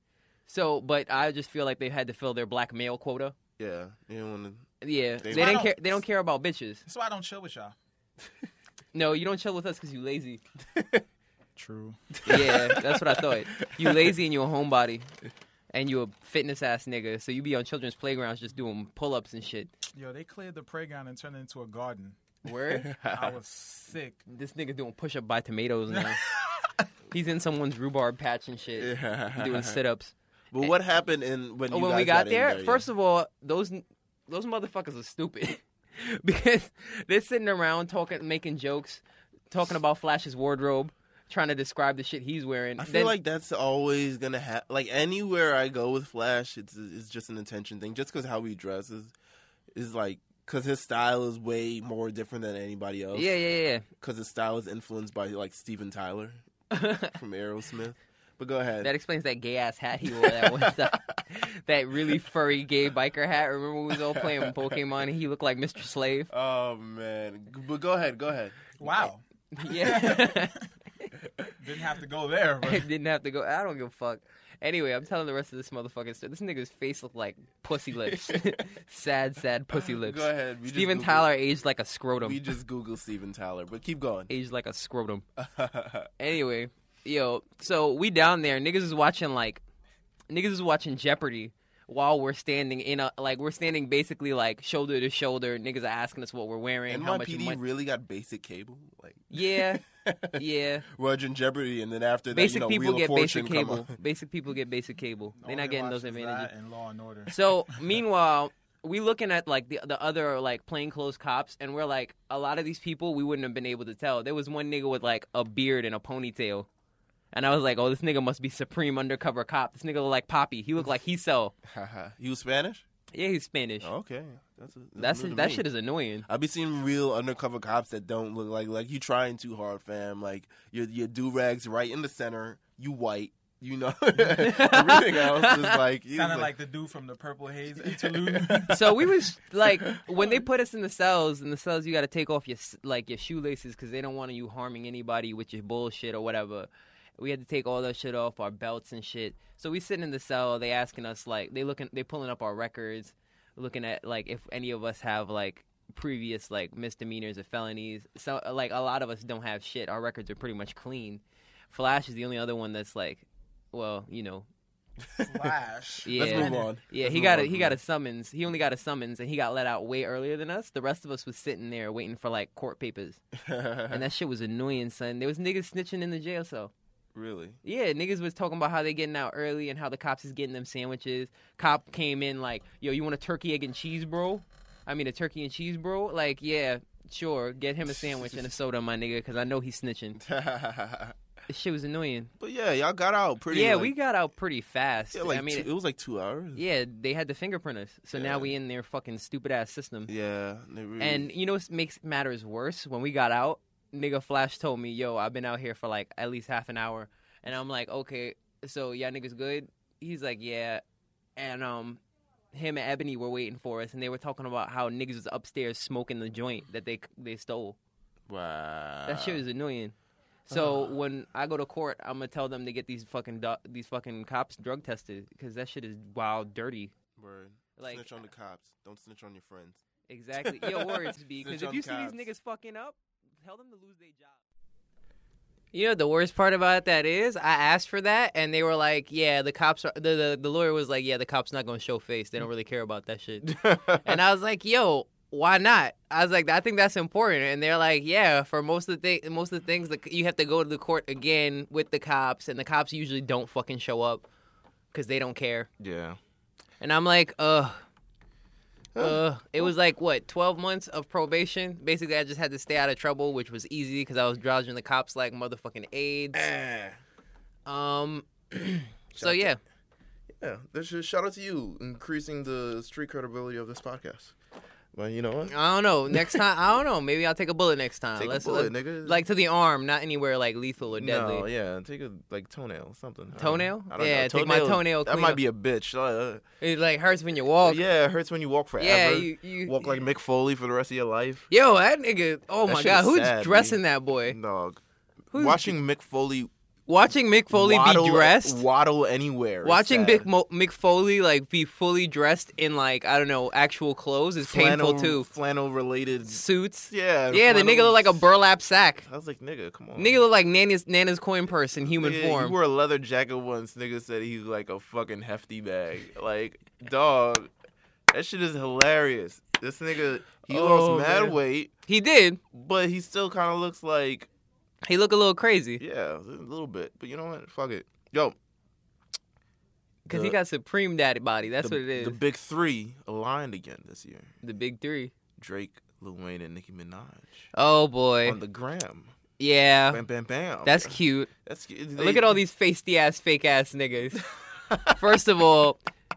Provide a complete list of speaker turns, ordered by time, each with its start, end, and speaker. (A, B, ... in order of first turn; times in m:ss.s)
0:00.5-0:03.4 A
0:03.6-0:05.8 B
0:04.8-0:06.8 A
0:05.3-0:05.8 C
0:06.9-0:07.8 C
0:08.9-0:10.4 A
0:10.7-0:11.0 B
0:11.6-0:12.2 C
0:12.2-0:14.2 B
0:12.2-0:15.1 A
0:15.7-0:19.7 A
0:19.9-0:22.2 C
0:22.4-0:22.9 A
0:22.6-0:23.4 B
0:23.1-0:24.2 C
0:24.3-0:26.2 A
0:27.1-0:30.7 A
0:28.8-0:29.8 B
0:30.5-0:32.9 B
0:31.7-0:43.1 A
0:42.8-0:49.1 B
0:49.7-0:53.3 B
0:53.1-0:53.9 A
0:54.0-0:56.4 B
0:56.7-0:57.2 A
0:57.0-0:58.9 B
0:58.8-1:06.3 A
1:00.1-1:01.2 B
1:03.9-1:04.8 B
1:06.3-1:09.1 B
1:08.8-1:10.7 C
1:09.5-1:11.1 A
1:11.6-1:12.9 C
1:12.6-1:22.4 A
1:18.0-1:18.6 B
1:19.7-1:21.3 B
1:22.2-1:24.3 B
1:24.3-1:25.2 A
1:25.4-1:26.1 B
1:26.2-1:29.6 A
1:30.3-1:37.6 A
1:36.9-1:43.9 B
1:39.3-1:39.8 A
1:40.3-1:40.8 A
1:42.3-1:46.5 A
1:45.4-1:48.0 C
1:47.3-1:56.7 A
1:57.3-2:01.5 A
2:01.7-2:02.8 B
2:03.1-2:03.9 A
2:03.8-2:05.7 B
2:05.0-2:06.3 A
2:06.3-2:16.5 B
2:14.4-2:15.8 A
2:16.1-2:18.8 C
2:17.8-2:19.1 B
2:18.7-2:44.5 A
2:19.6-2:20.4 B
2:45.2-2:46.7 C
2:46.0-2:53.2 A
2:46.1-2:47.8 B
2:53.4-2:54.0 B
2:53.9-2:56.7 A
2:57.1-2:57.6 B
2:57.6-3:10.2 A
3:07.9-3:08.6 B
3:10.2-3:11.2 B
3:11.5-3:12.3 A
3:12.4-3:14.0 B
3:13.5-3:15.7 A
3:15.1-3:16.6 B
3:16.6-3:20.1 A
3:18.1-3:18.5 B
3:20.1-3:21.3 B
3:21.0-3:30.8 A
3:31.4-3:32.0 A
3:32.5-3:37.8 A
3:38.3-3:39.4 B
3:39.1-3:39.9 A
3:40.5-3:46.9 A
3:40.5-3:41.0 B
3:47.2-3:49.8 B
3:47.8-3:48.3 A
3:50.1-3:54.4 A
3:50.4-3:52.3 B
3:55.7-4:14.3 A
4:03.5-4:04.2 B
4:14.9-4:15.7 A
4:15.8-4:16.2 B
4:16.8-4:17.8 A
4:18.9-4:19.7 B
4:19.0-4:26.5 A
4:26.3-4:27.0 B
4:27.7-4:29.6 A
4:29.1-4:29.6 B
4:30.4-4:34.4 B
4:34.9-4:35.6 B
4:35.5-4:41.5 A
4:36.1-4:36.4 B
4:38.2-4:39.2 B
4:40.9-4:46.4 B
4:43.4-4:45.4 A
4:46.6-4:47.8 A
4:47.6-4:51.5 B
4:48.8-4:49.9 A
4:51.5-4:54.4 A
4:52.7-4:56.5 B
4:55.3-4:55.8 A
4:56.9-4:58.6 A
4:57.5-5:00.3 B
4:59.6-5:05.3 A
5:04.4-5:08.2 B
5:06.3-5:09.1 A
5:09.0-5:10.2 B
5:10.0-5:12.6 A
5:11.8-5:17.5 B
5:18.1-5:21.7 B
5:20.5-5:22.4 A
5:22.5-5:24.3 B
5:24.9-5:25.8 A
5:25.8-5:28.4 B
5:30.0-5:32.2 A
5:30.1-5:30.4 B
5:31.6-5:34.3 B
5:34.4-5:35.1 A
5:35.4-5:37.5 B
5:37.5-5:38.4 A
5:38.2-5:39.1 B
5:39.4-5:40.0 A
5:39.9-5:42.4 B
5:40.6-5:41.3 A
5:42.0-5:44.2 A
5:44.7-5:45.0 B
5:45.0-5:45.8 A